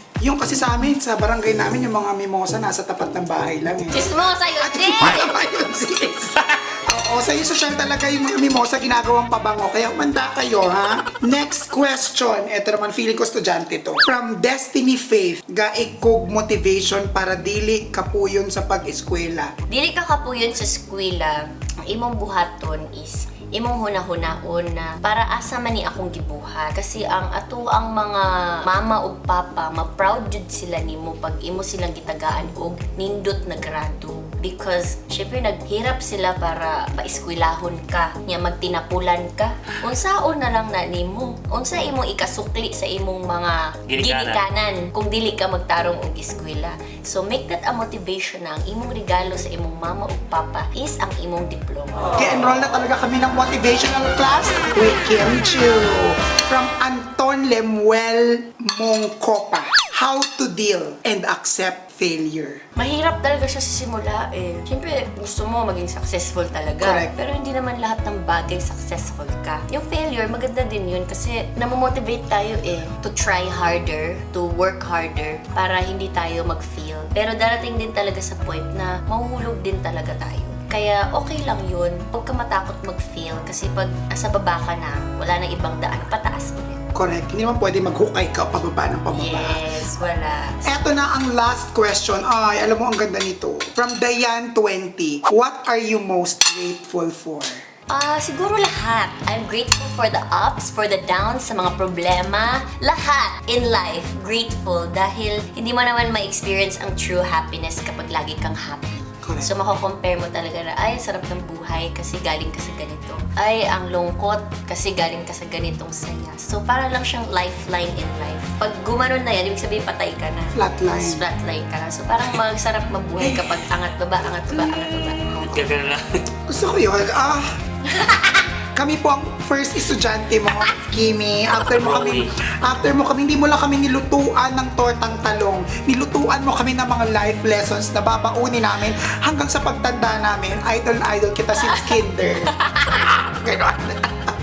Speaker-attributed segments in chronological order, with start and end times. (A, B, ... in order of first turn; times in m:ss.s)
0:00.2-0:19.5 A
0:03.9-0:05.4 B
0:19.7-0:52.1 B
0:43.9-0:44.4 C
0:52.2-1:02.6 A
1:02.8-1:26.9 B
1:06.8-1:07.1 A
1:26.9-1:29.6 A
1:29.1-1:30.6 B
1:30.6-1:37.6 A
1:37.9-2:05.2 B
1:49.2-1:49.5 A
2:00.5-2:01.2 A
2:03.2-2:03.6 A
2:04.7-2:05.6 A
2:05.3-2:06.2 C
2:06.5-2:07.5 A
2:07.9-2:08.5 B
2:08.7-2:22.5 A
2:11.7-2:12.3 C
2:21.6-2:21.9 B
2:22.5-2:23.3 B
2:23.3-2:24.3 A